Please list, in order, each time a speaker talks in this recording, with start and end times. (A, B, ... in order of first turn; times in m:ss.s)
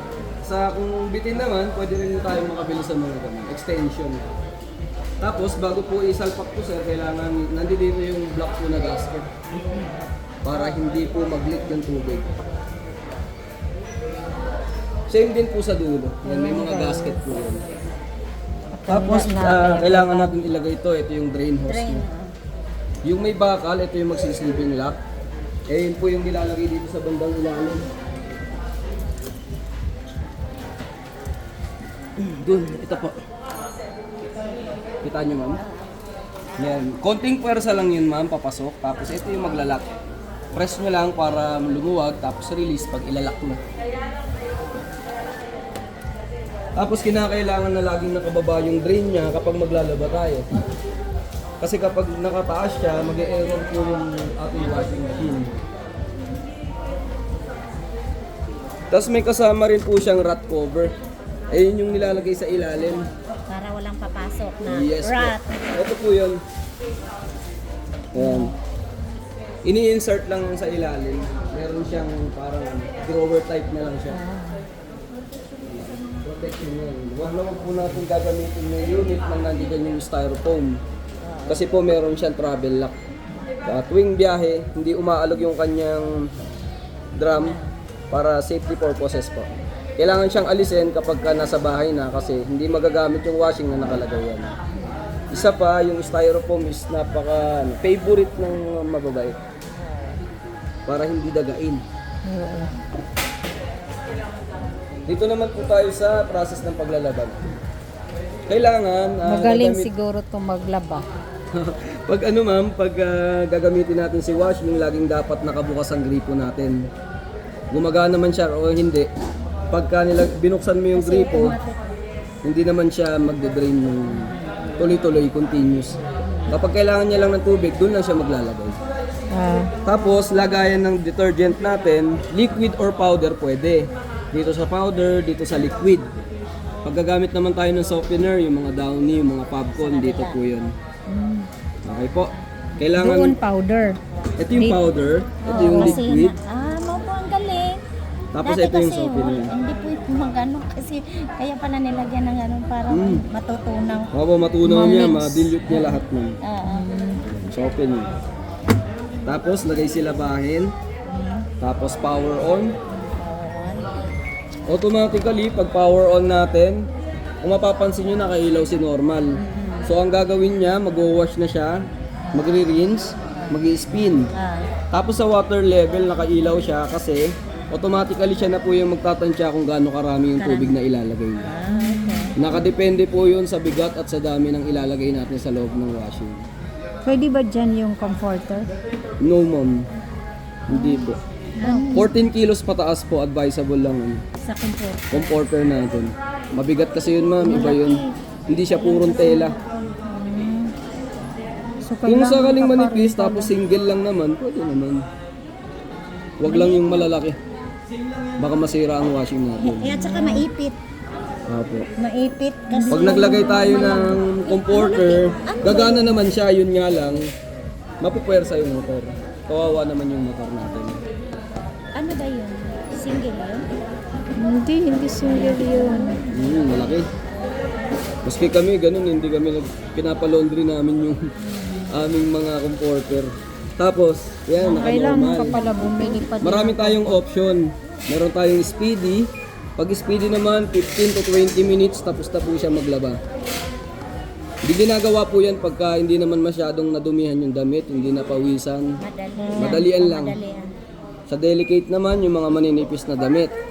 0:00.4-0:04.3 A
0:05.2-0:09.3 A
0:10.4-0:12.3 A
0:15.1-0:17.6 A
0:16.2-0:17.2 B
0:18.8-0:20.4 B
0:18.9-0:22.0 A
0:21.6-0:22.3 C
0:23.0-0:25.0 A
0:25.7-0:27.8 A
0:32.2-0:33.2 A
0:35.0-0:35.6 A
0:36.6-0:39.8 A
0:40.5-0:43.6 A
0:46.8-0:50.5 A
0:51.6-0:55.6 A
0:58.9-1:00.9 A
1:01.5-1:03.1 A
1:03.5-1:05.6 C
1:04.7-1:06.4 A
1:08.1-1:08.5 A
1:08.2-1:08.5 B
1:09.6-1:14.2 A
1:14.1-1:14.6 B
1:15.6-1:20.8 A
1:21.2-1:21.6 C
1:21.5-1:23.0 A
1:23.7-1:26.1 A
1:27.2-1:27.6 A
1:27.3-1:27.7 C
1:28.1-1:34.5 A
1:35.3-1:39.4 A
1:40.9-1:41.8 A
1:42.3-1:42.7 B
1:45.1-1:47.4 A
1:48.5-1:49.9 A
1:49.2-1:51.0 B
1:51.6-1:56.8 A
1:57.7-1:59.1 A
1:59.7-2:01.6 A
2:00.9-2:01.9 C
2:02.4-2:06.0 A
2:06.5-2:08.8 A
2:09.3-2:09.7 B
2:09.8-2:16.1 A
2:16.8-2:20.7 A
2:19.8-2:20.4 C
2:21.1-2:21.5 B
2:21.9-2:23.4 A
2:22.9-2:24.0 B
2:24.4-2:26.4 A
2:24.5-2:24.9 B
2:25.4-2:27.8 C
2:25.5-2:26.0 B
2:28.3-2:29.5 A
2:28.4-2:34.1 C
2:32.9-2:33.2 A
2:34.1-2:36.4 A
2:34.6-2:36.0 B
2:36.4-2:36.9 C
2:36.7-2:37.2 B
2:37.3-2:38.1 A
2:39.2-2:40.7 A
2:41.6-2:42.7 A
2:42.9-2:43.9 C
2:44.7-2:46.8 A
2:47.4-2:49.3 A
2:49.4-2:49.9 C
2:49.9-2:51.8 A
2:52.3-2:54.3 A
2:54.4-2:54.7 C
2:54.9-3:01.5 A
3:00.4-3:00.8 C
3:01.4-3:02.3 C
3:01.7-3:02.3 B
3:02.4-3:06.4 A
3:07.0-3:08.7 B
3:09.2-3:09.8 A
3:10.7-3:11.2 A
3:10.7-3:11.1 B
3:11.6-3:12.0 B
3:11.6-3:12.1 C
3:11.9-3:14.2 A
3:14.4-3:15.4 C
3:15.1-3:19.6 A
3:17.4-3:18.1 C
3:18.7-3:19.8 C
3:20.1-3:20.7 B
3:21.8-3:23.5 B
3:22.1-3:25.0 A
3:26.4-3:27.4 A
3:26.4-3:27.1 C
3:28.4-3:29.9 A
3:29.6-3:30.8 C
3:29.9-3:30.5 B
3:31.5-3:31.9 A
3:32.0-3:36.2 C
3:32.7-3:34.0 B
3:32.9-3:37.2 A
3:38.0-3:41.0 A
3:42.0-3:43.6 C
3:44.4-3:46.2 B
3:45.2-3:46.3 C
3:46.3-3:47.1 A
3:48.2-3:51.2 A
3:51.9-3:55.6 A
3:54.6-3:57.2 B
3:56.4-4:03.2 A
4:04.6-4:08.9 A
4:09.0-4:10.7 C
4:09.4-4:09.8 B
4:09.6-4:10.4 A
4:11.3-4:13.5 A